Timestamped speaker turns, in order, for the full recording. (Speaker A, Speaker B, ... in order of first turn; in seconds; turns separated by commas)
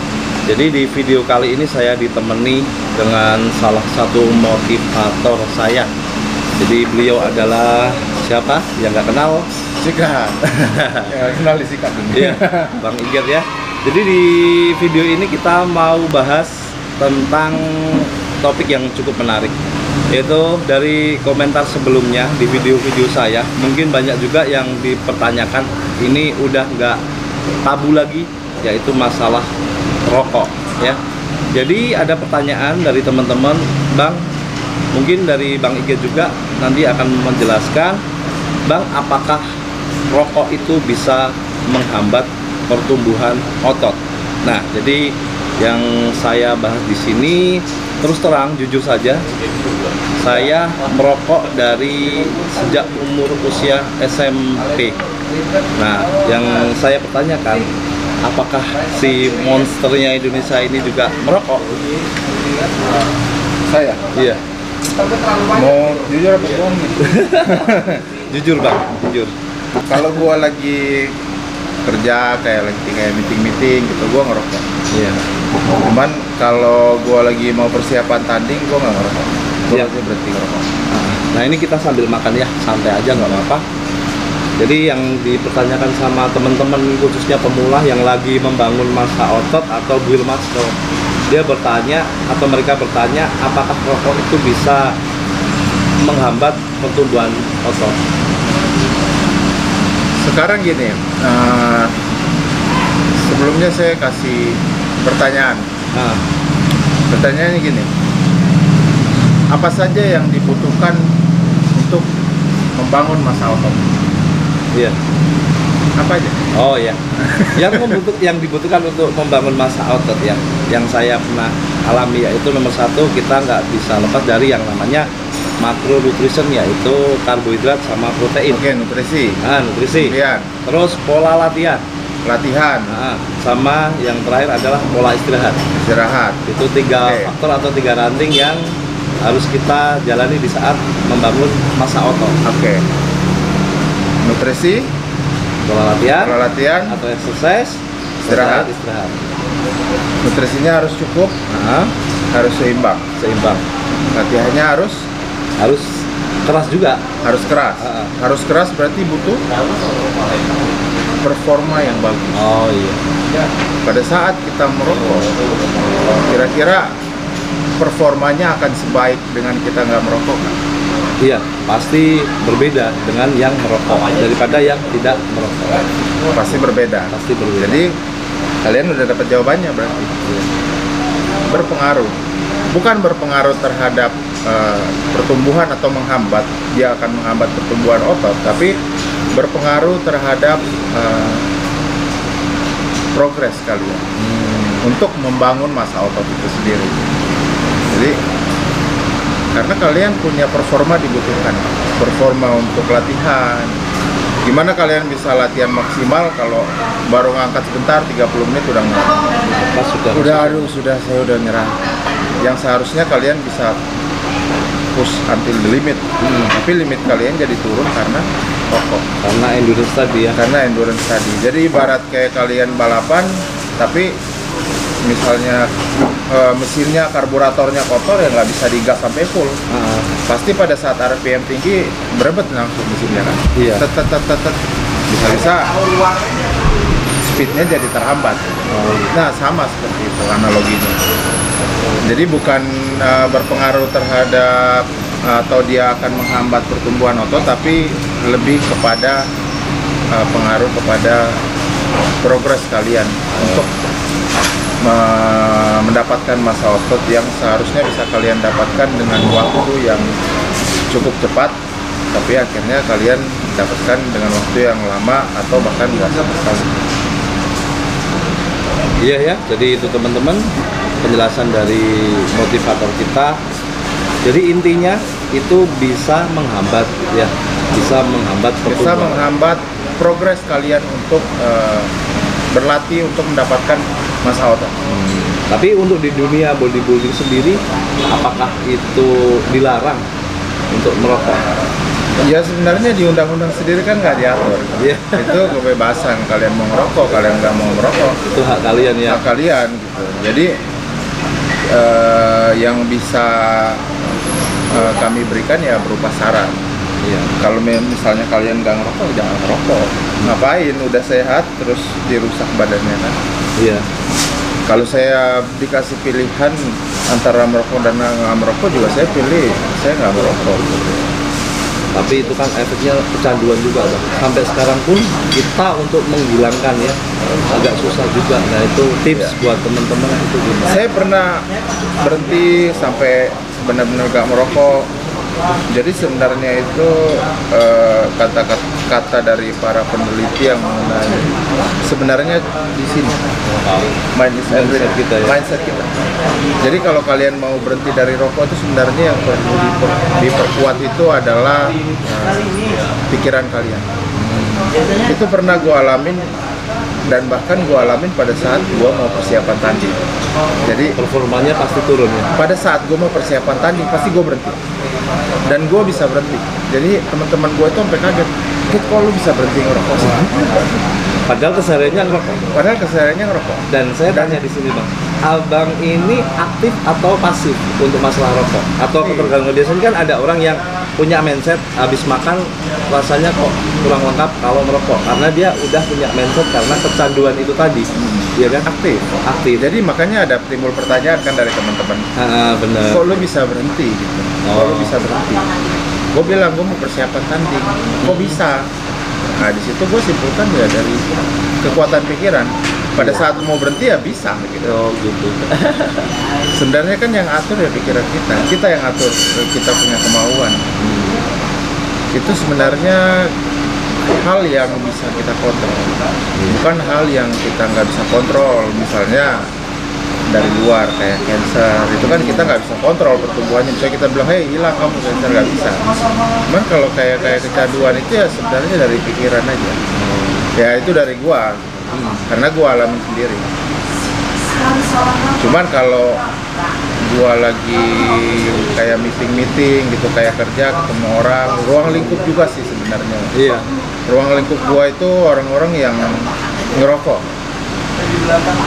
Speaker A: 0.5-5.9, Speaker A: 6.6-9.5, Speaker B: 9.8-10.4, Speaker A: 10.5-11.1, Speaker B: 11.1-12.8, Speaker A: 12.1-19.5, Speaker A: 20.1-27.0, Speaker A: 27.6-29.5, Speaker A: 30.1-31.0, Speaker A: 31.5-34.2, Speaker A: 34.9-38.0, Speaker A: 38.7-39.4, Speaker A: 40.1-49.2, Speaker A: 50.2-55.0, Speaker A: 55.8-57.7, Speaker A: 58.2-61.7, Speaker B: 63.7-64.0, Speaker A: 64.1-64.4, Speaker B: 65.5-68.0, Speaker A: 67.0-69.3, Speaker B: 69.8-71.1, Speaker B: 71.8-74.6, Speaker A: 74.9-75.2, Speaker B: 75.8-80.7, Speaker A: 80.9-83.6, Speaker A: 84.6-90.8, Speaker A: 91.3-94.9, Speaker A: 96.0-98.0, Speaker B: 100.2-101.9, Speaker B: 103.2-105.6, Speaker A: 105.9-106.2, Speaker B: 107.1-107.9, Speaker B: 109.5-111.0, Speaker B: 111.8-112.0, Speaker B: 112.8-113.8, Speaker B: 116.0-116.4, Speaker A: 116.5-117.0, Speaker B: 117.3-118.0, Speaker A: 117.5-125.1, Speaker A: 125.6-128.6, Speaker B: 128.5-129.4, Speaker A: 129.4-131.8, Speaker B: 129.9-130.5, Speaker B: 132.2-132.9, Speaker A: 132.9-135.6, Speaker B: 135.8-136.4, Speaker A: 136.5-138.7, Speaker B: 137.0-137.3, Speaker A: 139.2-142.4, Speaker B: 142.4-142.8, Speaker B: 144.2-144.9, Speaker A: 145.7-146.4, Speaker B: 146.2-147.0, Speaker A: 146.9-149.2, Speaker B: 148.2-148.7, Speaker B: 150.2-151.3, Speaker A: 151.5-151.9, Speaker B: 152.3-153.0, Speaker A: 153.2-153.6, Speaker B: 154.1-155.1, Speaker A: 155.6-157.0, Speaker B: 157.2-159.4, Speaker A: 157.8-158.1, Speaker B: 161.2-162.5, Speaker A: 162.3-163.0, Speaker B: 163.8-165.3, Speaker B: 166.2-166.9, Speaker B: 167.8-170.6, Speaker A: 171.2-175.9, Speaker B: 176.3-177.9, Speaker A: 177.1-177.8, Speaker B: 178.6-180.1, Speaker A: 180.2-180.5, Speaker B: 181.5-182.1, Speaker B: 182.7-188.8, Speaker B: 189.3-191.5, Speaker B: 193.1-194.1, Speaker A: 194.2-194.9, Speaker B: 194.8-197.0, Speaker B: 197.9-198.2, Speaker B: 199.5-203.7, Speaker B: 204.4-209.2, Speaker A: 209.4-210.7, Speaker B: 210.1-211.8, Speaker B: 212.4-213.8, Speaker B: 214.9-219.0, Speaker A: 216.2-216.5, Speaker A: 219.2-220.4, Speaker B: 220.3-224.1, Speaker B: 225.1-225.7, Speaker B: 226.3-229.5, Speaker A: 229.7-230.1, Speaker B: 230.3-234.6, Speaker A: 233.6-233.8, Speaker B: 235.1-235.7, Speaker B: 237.2-240.9, Speaker A: 238.7-239.1, Speaker B: 242.0-249.2, Speaker B: 250.1-251.4, Speaker B: 252.2-253.7, Speaker A: 253.3-253.7, Speaker B: 254.8-260.1, Speaker B: 260.9-261.5, Speaker B: 262.1-266.8, Speaker A: 269.0-270.5, Speaker A: 271.0-273.4, Speaker A: 274.2-279.3, Speaker B: 278.6-281.9, Speaker B: 282.5-284.7, Speaker A: 284.9-290.0, Speaker A: 290.7-291.4, Speaker B: 292.2-298.1, Speaker A: 294.8-295.4, Speaker A: 298.2-299.2, Speaker B: 299.1-300.5, Speaker B: 301.7-303.8, Speaker B: 304.7-306.6, Speaker A: 307.0-307.3, Speaker B: 307.4-313.1, Speaker A: 313.6-313.8, Speaker B: 314.7-320.9, Speaker A: 321.9-327.0, Speaker A: 327.5-330.8, Speaker B: 330.6-331.4, Speaker B: 332.0-334.9, Speaker B: 335.7-341.2, Speaker B: 341.8-343.2, Speaker B: 344.1-345.9, Speaker A: 344.5-345.3, Speaker B: 346.6-352.5, Speaker B: 353.1-353.8, Speaker A: 354.2-354.7, Speaker B: 355.1-356.3, Speaker B: 357.1-359.9, Speaker B: 360.6-360.9, Speaker A: 360.9-362.3, Speaker B: 362.3-364.6, Speaker B: 365.4-370.3, Speaker A: 370.0-370.3, Speaker A: 371.2-372.5, Speaker B: 372.5-374.4, Speaker A: 373.7-388.7, Speaker B: 378.9-379.3, Speaker B: 388.6-389.0, Speaker A: 389.2-389.6, Speaker B: 389.5-392.0, Speaker A: 392.1-393.1, Speaker B: 392.9-395.4, Speaker A: 394.4-394.9, Speaker B: 396.1-398.6, Speaker A: 398.0-398.4, Speaker B: 399.4-401.0, Speaker B: 401.6-404.8, Speaker A: 403.0-403.2, Speaker A: 404.6-406.1, Speaker B: 406.5-410.6, Speaker A: 410.8-411.2, Speaker B: 412.1-413.3, Speaker B: 414.2-419.5, Speaker B: 420.3-425.8, Speaker A: 422.0-422.6, Speaker B: 426.5-429.8, Speaker A: 429.9-430.5, Speaker B: 430.5-433.4, Speaker A: 431.9-432.2, Speaker B: 435.4-436.2, Speaker B: 437.0-443.3, Speaker A: 443.3-443.7, Speaker B: 444.1-447.2